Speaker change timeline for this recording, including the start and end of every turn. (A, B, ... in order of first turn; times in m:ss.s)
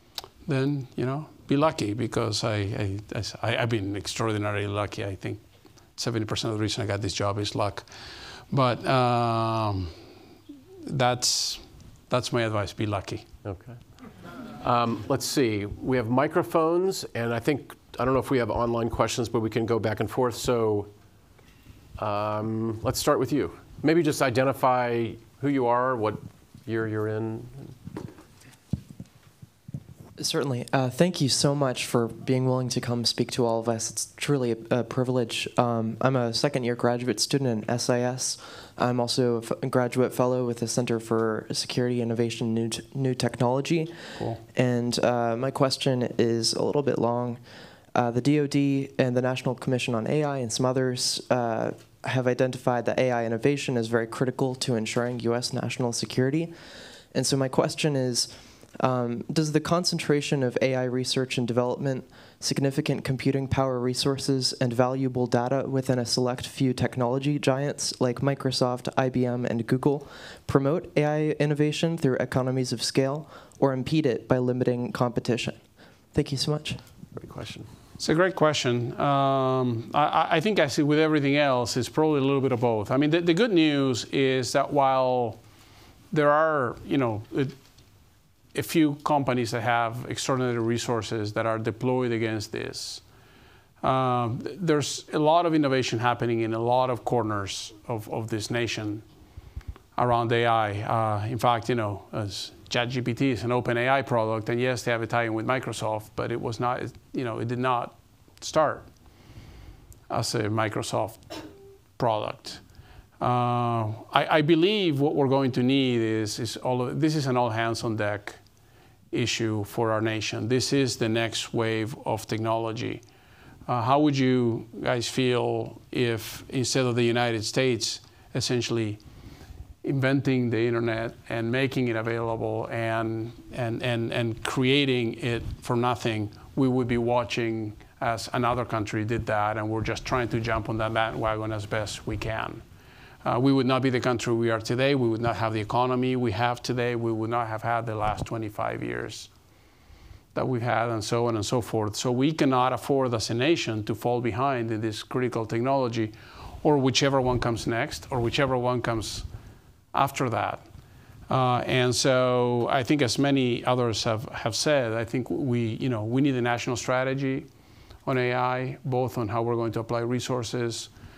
0:00.4-0:05.4 A
0:06.0-0:07.9 A
0:08.5-0:10.0 A
0:10.8-0:13.3 A
0:13.4-0:13.8 B
0:14.6-0:20.9 B
0:22.0-0:27.8 B
0:30.2-0:47.4 C
0:44.2-0:44.4 A
0:47.9-0:56.5 C
0:57.1-1:15.6 C
1:16.1-1:16.8 C
1:17.1-1:17.7 B
1:18.0-1:25.4 A
1:26.1-1:27.5 A
1:28.5-1:33.0 A
1:33.8-1:39.0 A
1:40.0-1:48.9 A
1:50.1-1:51.4 A
1:52.0-1:52.6 A
1:53.2-1:58.4 A
1:59.1-2:03.0 A
2:03.7-2:09.0 A
2:09.8-2:22.6 A
2:23.2-2:29.3 A
2:30.3-2:39.3 A
2:39.9-2:40.6 A
2:41.3-2:47.5 A
2:48.0-2:50.9 A